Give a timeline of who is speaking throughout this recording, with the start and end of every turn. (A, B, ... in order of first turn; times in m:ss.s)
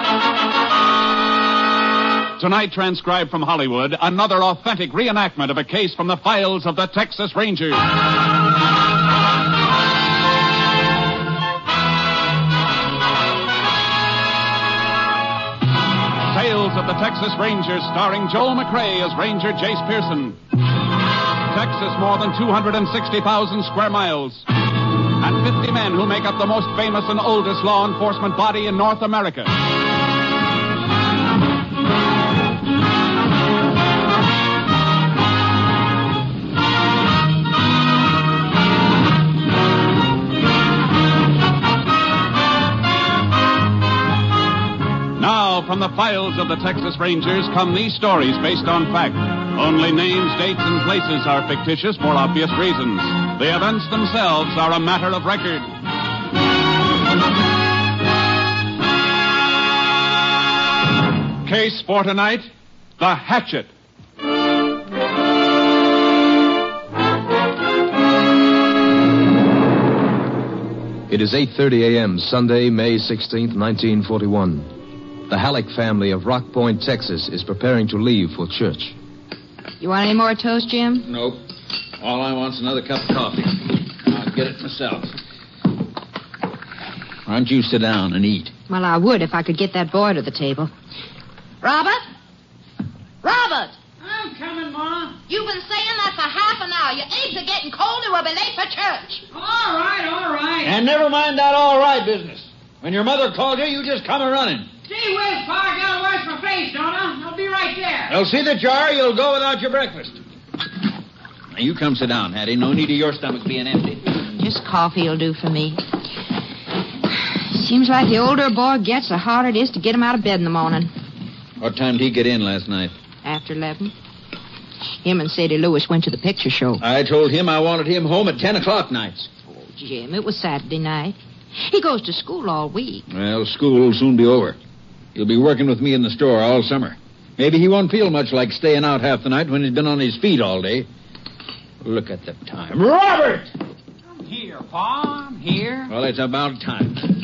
0:02.4-0:07.8 A
0:16.2-0:20.4 A
0:21.5-0:24.5 A
0:25.2-0:29.5 A
0:45.2-0:55.7 A
1:01.4-1:02.5 A
1:03.0-1:03.7 A
1:11.1-1:14.7 B
1:15.3-1:19.0 B
1:19.8-1:21.1 C
1:21.0-1:21.4 D
1:22.0-1:25.2 D
1:27.3-1:28.5 D
1:28.7-1:30.7 C
1:31.6-1:32.0 C
1:33.2-1:33.8 C
1:34.0-1:35.2 E
1:35.3-1:39.2 C
1:39.3-1:40.8 E
1:40.6-1:44.7 D
1:44.9-1:48.2 E
1:48.1-1:50.2 D
1:51.5-1:54.2 D
1:54.3-1:55.8 C
1:57.1-2:00.9 C
2:01.6-2:03.0 D
2:03.2-2:03.9 C
2:05.0-2:06.8 C
2:06.8-2:09.3 D
2:09.6-2:13.0 C
2:13.1-2:14.6 D
2:15.2-2:20.9 D
2:21.8-2:23.5 D
2:24.1-2:25.9 E
2:25.9-2:27.0 D